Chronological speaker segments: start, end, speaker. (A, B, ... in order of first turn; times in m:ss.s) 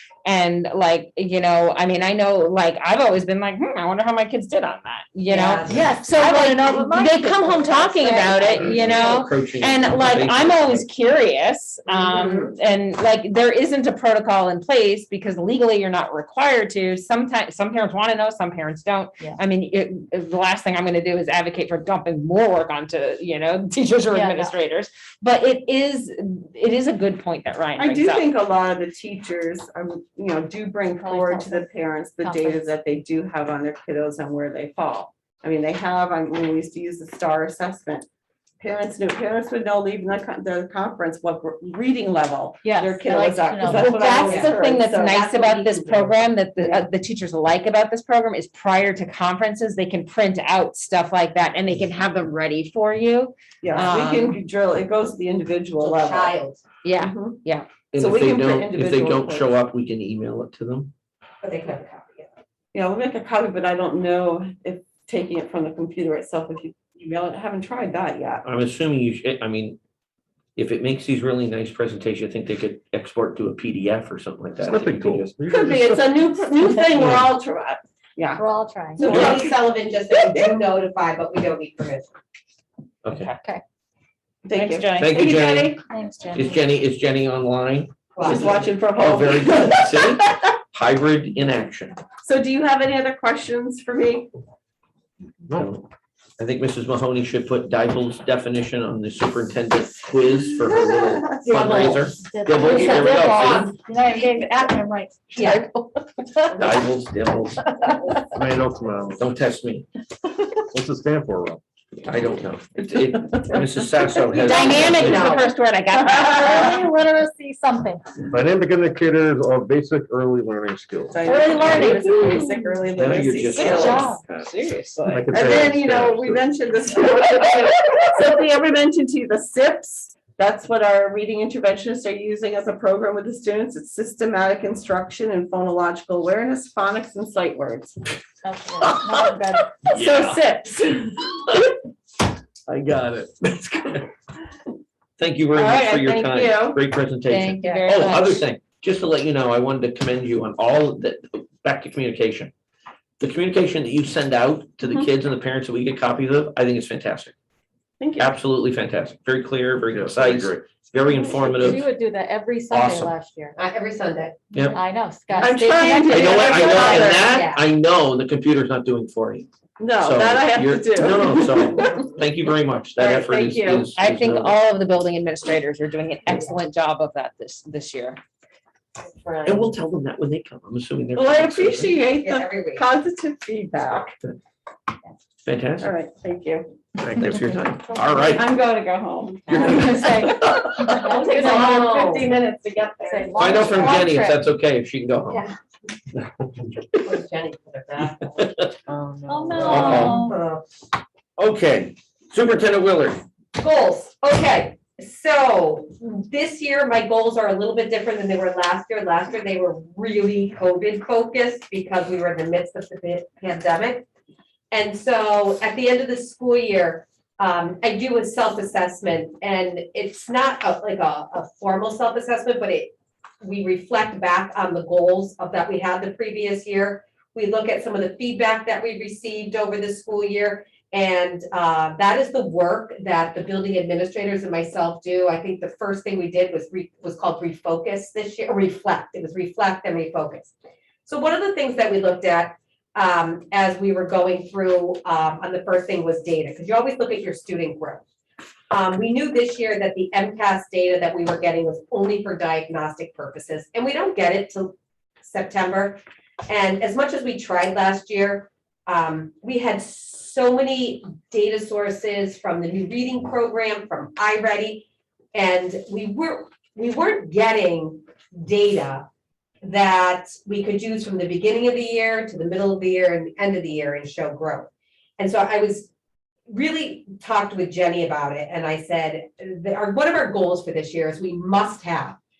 0:00.2-0:28.2 A
0:05.3-0:05.9 B
0:05.7-0:08.7 C
0:08.6-0:09.0 B
0:08.7-0:10.9 D
0:11.9-0:12.5 B
0:24.1-0:24.5 C
0:27.8-0:38.1 E
0:31.0-0:32.6 C
0:38.6-0:45.6 E
0:42.6-0:44.2 C
0:43.7-0:44.5 B
0:43.8-0:54.4 A
0:45.1-0:46.1 B
0:53.6-0:56.4 E
0:55.8-0:56.6 B
0:56.8-0:57.7 A
0:57.0-0:57.4 E
0:57.9-1:00.9 D
0:58.0-0:59.6 E
1:01.4-1:02.3 B
1:02.7-1:08.4 E
1:08.4-1:09.8 D
1:10.6-1:15.3 D
1:14.6-1:16.0 F
1:15.5-1:18.4 E
1:18.4-1:19.1 C
1:19.0-1:22.1 B
1:19.0-1:19.6 E
1:20.1-1:20.5 E
1:23.0-1:23.3 D
1:23.2-1:23.4 A
1:24.4-1:25.8 E
1:24.5-1:25.2 A
1:25.0-1:25.8 D
1:25.8-1:26.6 C
1:26.3-1:32.0 D
1:28.2-1:28.5 B
1:28.2-1:30.4 E
1:32.2-1:34.3 E
1:35.5-1:35.9 D
1:36.4-1:43.7 D
1:40.6-1:41.4 E
1:41.5-1:43.7 B
1:42.2-1:46.7 C
1:45.3-1:45.6 B
1:46.6-1:47.7 D
1:47.7-1:48.2 C
1:48.3-1:49.2 F
1:49.2-1:49.9 D
1:50.7-1:51.6 F
1:52.0-1:55.4 D
1:53.3-1:53.6 E
1:54.3-1:55.5 B
1:54.4-1:56.8 A
1:54.4-1:58.0 C
1:58.2-2:02.0 F
2:01.1-2:18.0 E
2:01.3-2:02.4 A
2:01.8-2:02.1 C
2:02.9-2:04.4 D
2:03.7-2:04.2 C
2:04.5-2:05.0 A
2:05.1-2:06.4 F
2:18.4-2:19.7 C
2:19.4-2:21.4 E
2:19.9-2:20.4 D
2:22.7-2:24.1 D
2:25.2-2:32.5 D
2:25.6-2:26.8 E
2:27.3-2:28.4 C
2:27.5-2:28.2 A
2:33.2-2:37.4 D
2:38.0-2:38.4 E
2:38.2-2:41.9 D
2:39.9-2:40.6 F
2:41.3-2:41.7 F
2:41.4-2:43.6 C
2:42.7-2:43.1 D
2:43.6-2:44.4 B
2:44.5-2:44.8 D
2:44.6-2:47.1 C
2:45.4-2:47.3 E
2:46.1-2:49.5 D
2:46.7-2:47.6 B
2:49.8-2:52.1 E
2:50.0-2:54.6 D
2:53.0-2:53.9 E
2:54.0-2:58.2 A
2:59.0-2:59.7 B
2:59.4-3:02.0 D
3:01.2-3:04.2 E
3:02.2-3:02.8 B
3:05.4-3:05.9 D
3:05.8-3:06.8 E
3:07.0-3:07.4 F
3:07.2-3:08.5 D
3:08.0-3:08.2 C
3:08.3-3:14.0 E
3:09.5-3:11.0 D
3:09.5-3:12.1 C
3:11.0-3:12.3 B
3:13.0-3:14.4 C
3:13.4-3:15.4 D
3:17.0-3:20.6 B
3:18.4-3:18.7 D
3:19.3-3:20.4 C
3:19.6-3:20.3 D
3:21.4-3:23.2 D
3:23.6-3:34.0 B
3:34.7-4:00.5 B
4:01.1-4:08.0 B
4:08.7-4:29.1 B
4:29.6-4:35.9 B
4:36.5-4:42.2 B